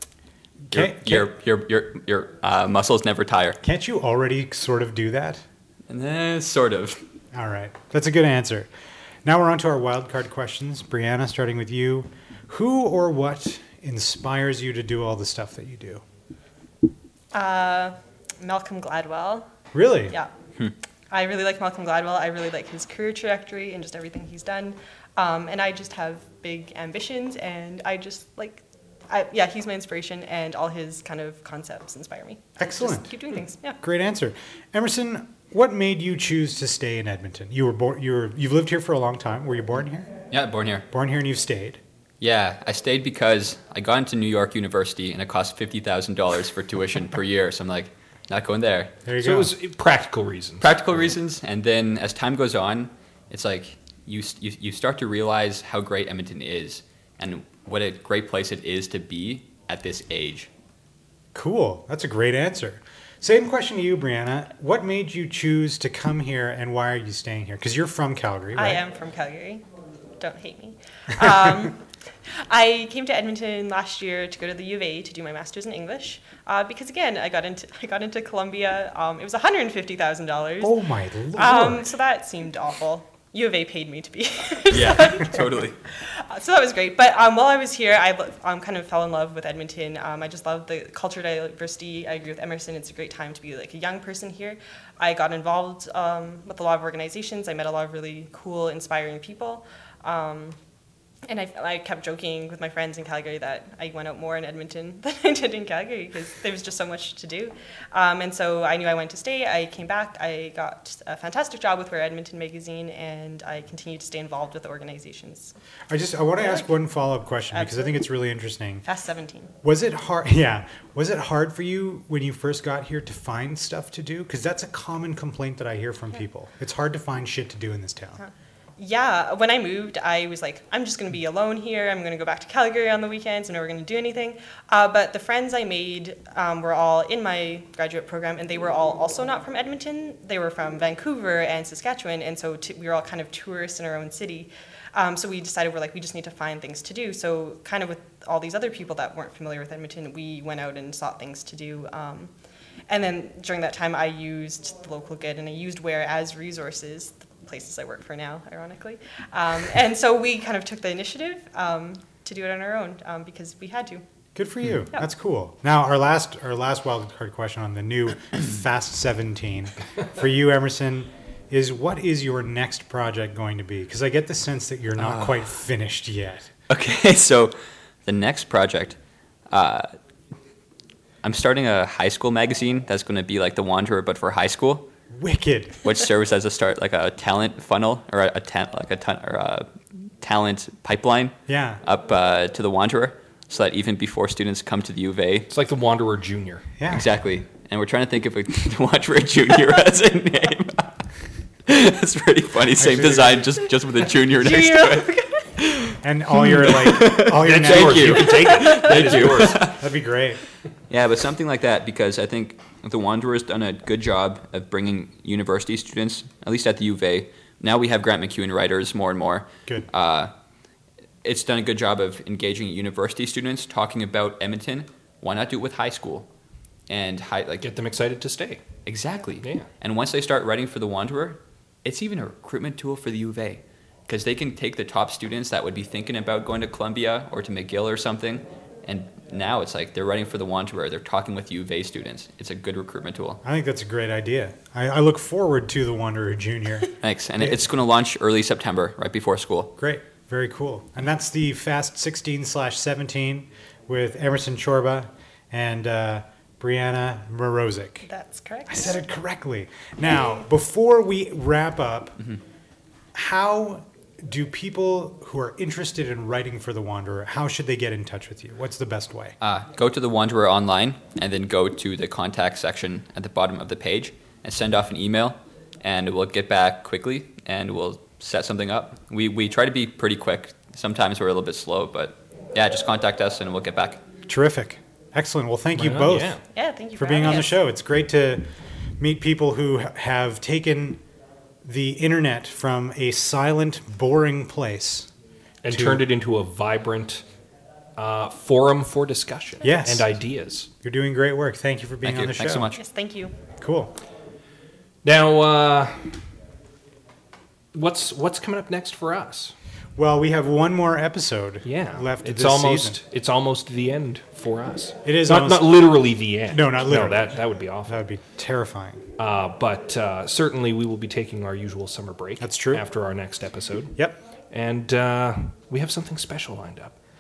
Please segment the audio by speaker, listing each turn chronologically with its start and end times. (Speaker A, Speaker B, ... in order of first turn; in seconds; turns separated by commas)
Speaker A: 0.7-1.3, Speaker B: 0.7-3.6, Speaker A: 3.6-5.4, Speaker B: 5.9-7.0, Speaker A: 7.3-8.7, Speaker A: 9.2-16.0, Speaker C: 17.3-19.5, Speaker A: 19.7-20.1, Speaker C: 21.1-33.8, Speaker A: 32.6-33.1, Speaker A: 33.8-40.1, Speaker B: 40.3-40.9, Speaker A: 40.9-41.8, Speaker B: 42.2-49.0, Speaker A: 49.1-49.5, Speaker D: 49.2-50.6, Speaker B: 50.6-60.5, Speaker A: 61.3-68.8, Speaker C: 68.5-69.6, Speaker C: 70.2-80.8, Speaker A: 80.6-81.9, Speaker C: 81.3-100.6, Speaker B: 84.7-85.8, Speaker C: 101.3-115.5, Speaker A: 115.9-118.8, Speaker C: 116.4-116.7, Speaker C: 117.5-118.0, Speaker C: 118.8-119.5, Speaker A: 119.6-128.2, Speaker C: 128.2-152.3, Speaker C: 152.9-164.0, Speaker A: 164.3-176.5, Speaker B: 176.7-179.0, Speaker B: 179.5-179.9, Speaker B: 181.2-184.9, Speaker A: 185.1-185.8, Speaker B: 185.8-195.5, Speaker A: 191.5-191.8, Speaker D: 195.5-196.7, Speaker A: 196.8-197.1, Speaker B: 196.9-201.1, Speaker B: 201.7-209.8, Speaker A: 202.8-203.5, Speaker C: 204.4-205.4, Speaker A: 206.0-210.4, Speaker D: 207.3-209.7, Speaker B: 210.9-220.3, Speaker B: 221.2-226.3, Speaker B: 226.9-227.7, Speaker D: 227.6-228.6, Speaker B: 228.9-243.4, Speaker A: 243.4-246.9, Speaker B: 247.0-249.7, Speaker A: 249.8-258.1, Speaker C: 258.1-259.1, Speaker A: 258.7-262.2, Speaker C: 260.1-260.4, Speaker A: 263.1-269.4, Speaker B: 269.4-284.0, Speaker A: 284.3-286.4, Speaker D: 285.8-286.4, Speaker C: 286.5-287.6, Speaker A: 287.0-291.0, Speaker A: 291.6-295.1, Speaker D: 295.6-297.2, Speaker A: 295.7-296.1, Speaker D: 298.0-300.7, Speaker A: 299.6-300.1, Speaker A: 300.8-302.7, Speaker B: 302.0-302.8, Speaker C: 302.8-303.3, Speaker A: 303.6-303.9, Speaker D: 305.0-306.3, Speaker D: 307.7-309.5, Speaker A: 310.0-313.0, Speaker D: 311.6-318.0, Speaker A: 315.0-315.8, Speaker A: 316.5-319.1, Speaker D: 319.2-327.0, Speaker A: 322.4-322.9